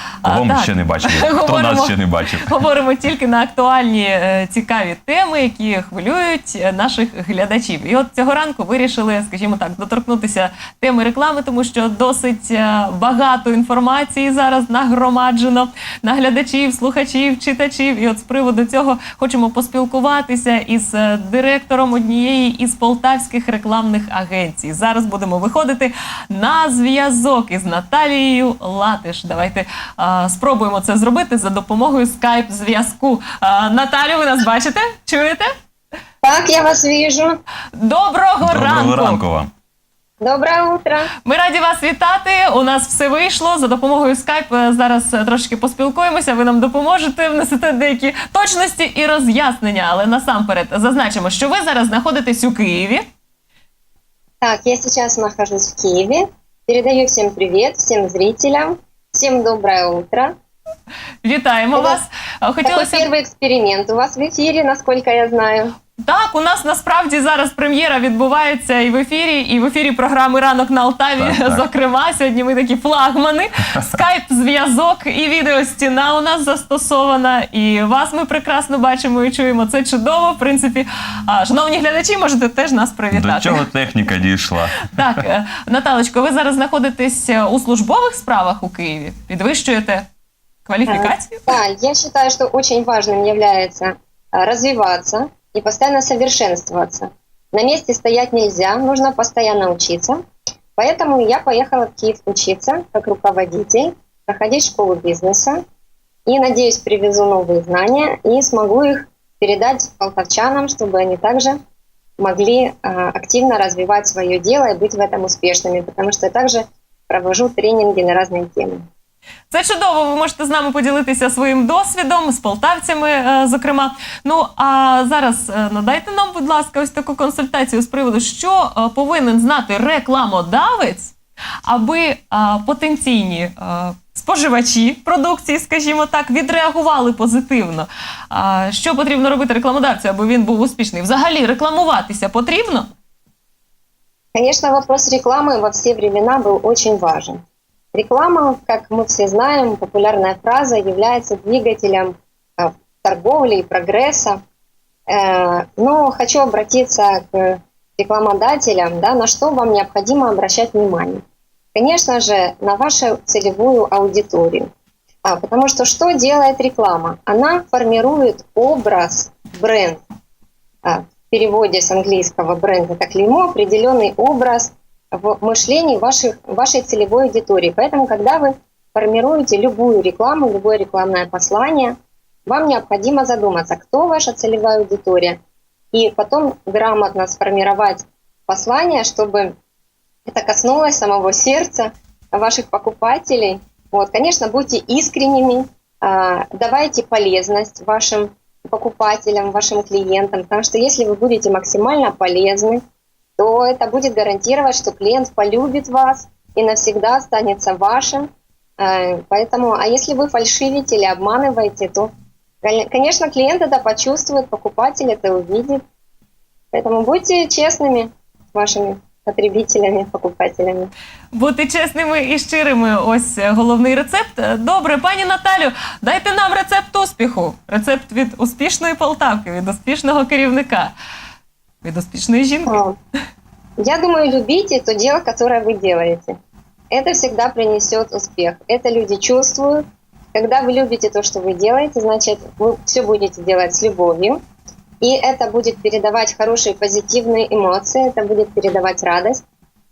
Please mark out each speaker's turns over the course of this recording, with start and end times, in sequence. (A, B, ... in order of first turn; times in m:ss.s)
0:00.2-0:02.6 A
0:00.3-0:35.5 B
0:36.2-0:37.4 C
0:37.8-0:39.2 B
0:38.4-0:39.5 A
0:40.2-0:41.1 C
0:41.2-0:53.0 B
0:54.4-1:00.3 C
1:01.2-1:03.1 B
1:02.6-1:05.7 C
1:06.0-1:23.6 B
1:11.2-1:11.6 A
1:23.1-1:25.0 A
1:24.8-1:30.1 B
1:30.7-1:31.5 B
1:30.9-1:40.2 C
1:40.8-1:45.6 C
1:46.3-1:51.6 C
1:52.2-1:58.8 C
1:59.5-2:11.2 B
2:11.7-2:22.9 B
2:24.3-2:27.4 C
2:27.9-2:34.4 C
2:35.1-2:41.2 C
2:41.7-2:44.7 C
2:45.3-2:50.0 C
2:50.8-3:05.4 C
3:05.9-3:09.6 C
3:10.3-3:22.8 C
3:23.4-3:32.1 C
3:32.6-3:35.8 C
3:36.7-3:40.9 C
3:41.3-3:50.9 B
3:51.8-3:52.8 B
3:52.7-3:53.0 C
3:53.8-3:56.4 C
3:56.9-4:04.4 C
4:05.0-4:09.4 C